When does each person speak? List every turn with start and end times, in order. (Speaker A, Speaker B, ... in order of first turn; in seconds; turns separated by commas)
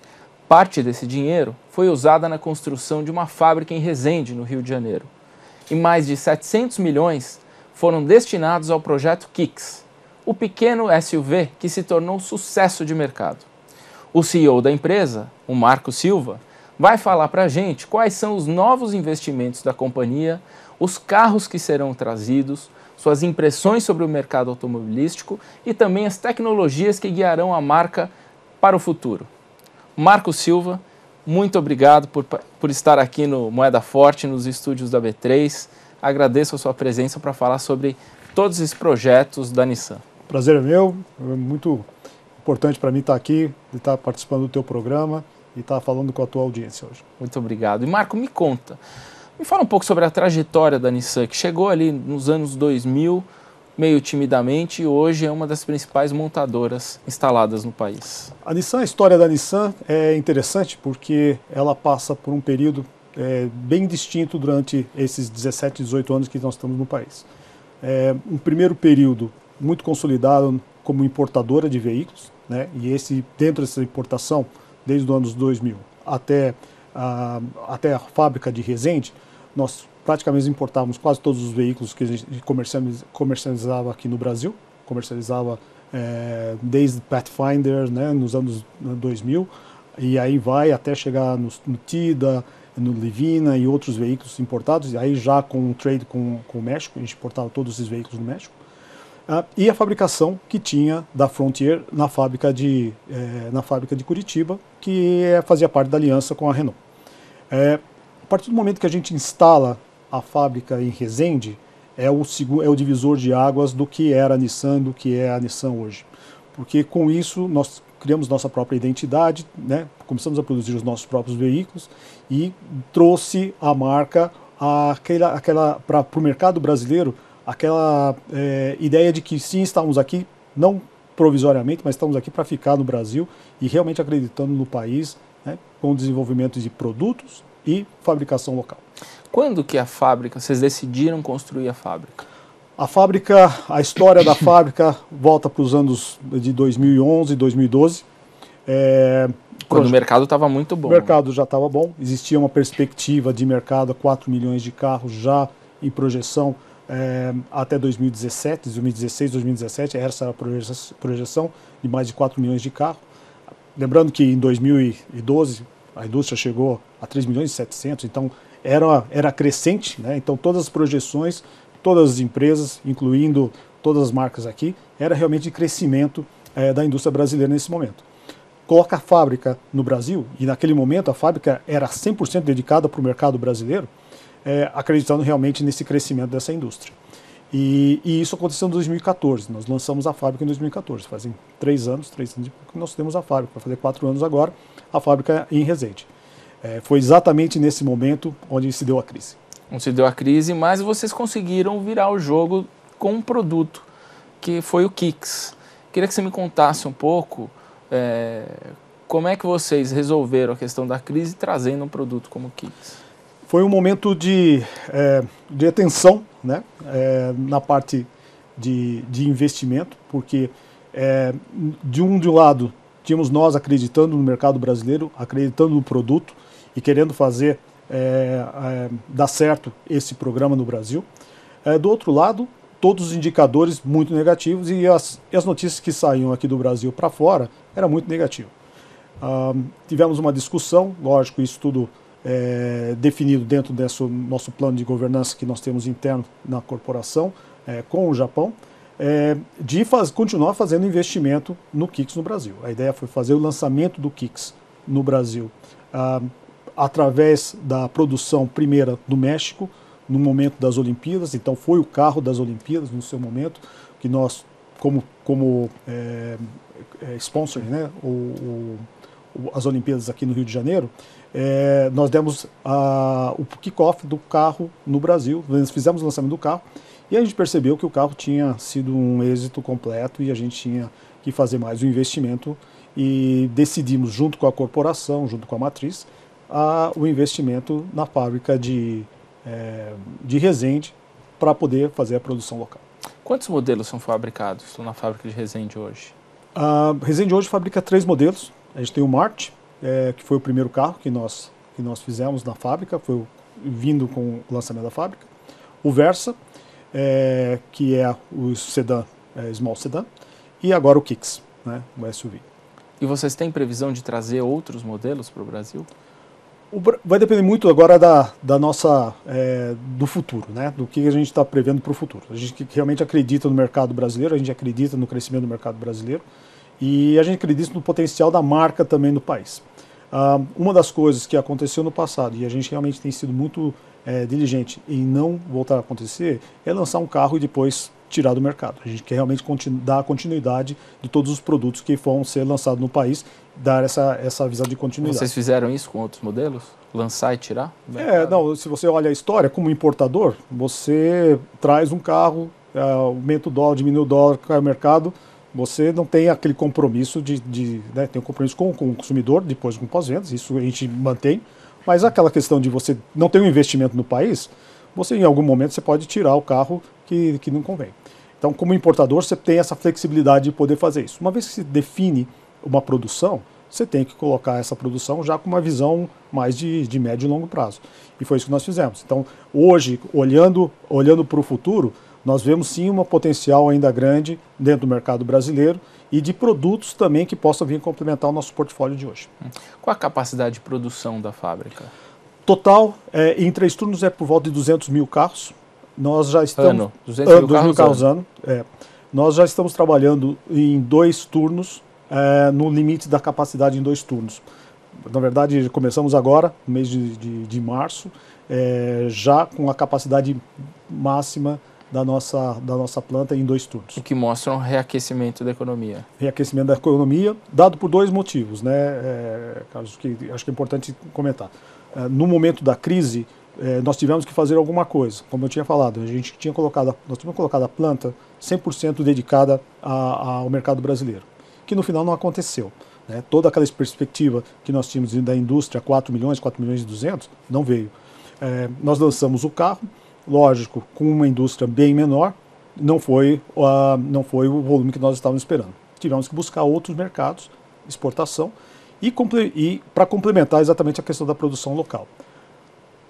Speaker A: 0.5-5.1, Speaker A: 5.7-13.5, Speaker A: 14.1-29.3, Speaker A: 29.9-40.0, Speaker B: 40.3-41.9, Speaker B: 42.4-47.0, Speaker A: 47.2-48.8, Speaker A: 49.4-58.3, Speaker B: 58.4-67.3, Speaker B: 67.8-98.5, Speaker B: 99.3-106.8, Speaker B: 107.5-138.8, Speaker A: 139.3-142.2, Speaker B: 142.8-148.0, Speaker B: 148.7-150.0, Speaker A: 149.7-151.1, Speaker B: 150.8-163.0, Speaker B: 163.8-178.0, Speaker B: 178.7-183.9, Speaker B: 184.4-186.9, Speaker B: 187.5-196.1, Speaker B: 196.6-199.4, Speaker A: 199.7-203.9, Speaker A: 204.4-213.0, Speaker B: 213.4-231.1, Speaker B: 231.6-238.5, Speaker B: 239.2-266.4, Speaker B: 267.0-292.8, Speaker A: 293.2-296.1, Speaker B: 296.6-305.3, Speaker B: 305.8-306.4, Speaker B: 306.9-310.1, Speaker B: 310.6-312.4, Speaker A: 313.0-315.9, Speaker B: 316.7-326.2, Speaker B: 326.8-345.3, Speaker A: 345.0-348.4, Speaker B: 348.0-389.3, Speaker A: 389.8-391.9, Speaker B: 392.4-404.4, Speaker A: 396.6-398.0, Speaker B: 405.1-414.0, Speaker A: 413.9-416.1, Speaker B: 416.2-452.1